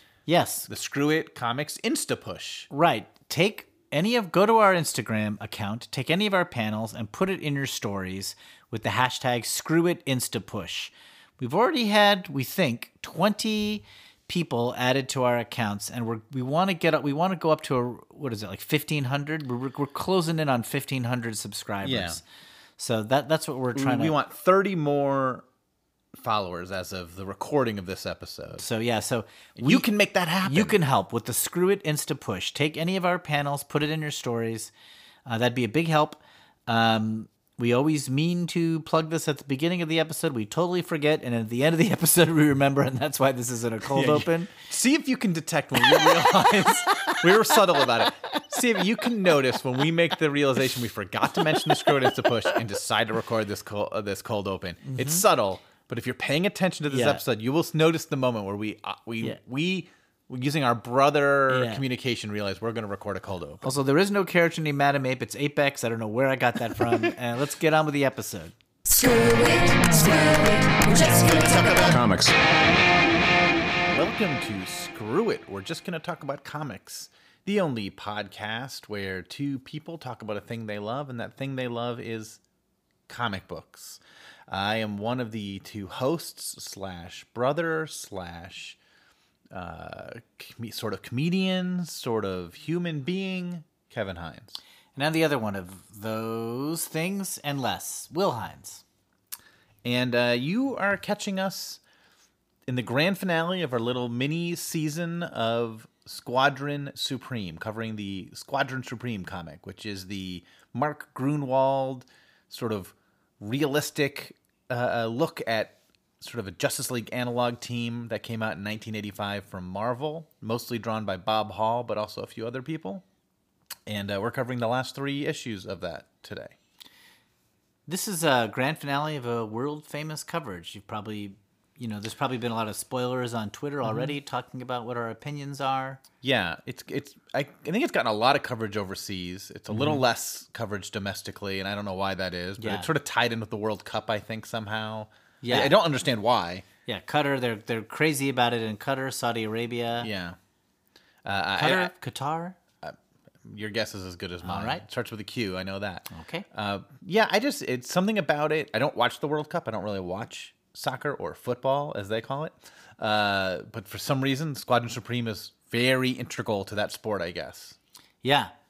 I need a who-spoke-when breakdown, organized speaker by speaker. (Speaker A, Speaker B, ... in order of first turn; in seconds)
Speaker A: 0.3-0.7, 2.7-22.2, 22.8-24.1, 28.6-29.9, 30.4-34.7, 35.2-44.5, 45.8-48.8, 51.4-52.3, 54.9-55.2, 56.9-57.2, 61.5-61.8, 63.6-71.7, 95.0-98.8, 127.9-136.0, 139.7-140.0, 142.6-142.9, 145.4-145.7, 146.9-150.1, 151.6-152.6, 154.4-154.8, 156.1-156.4, 168.2-168.5
Speaker B: 0.7-2.7, 21.8-22.2, 23.7-25.4, 26.2-28.6, 29.6-30.8, 43.9-63.7, 72.0-72.3, 73.9-82.4, 83.1-88.8, 89.5-94.6, 99.8-101.8, 102.7-123.0, 123.9-126.5, 136.2-146.7, 150.0-150.4, 151.2-151.9, 152.8-167.8
Speaker C: 69.1-72.2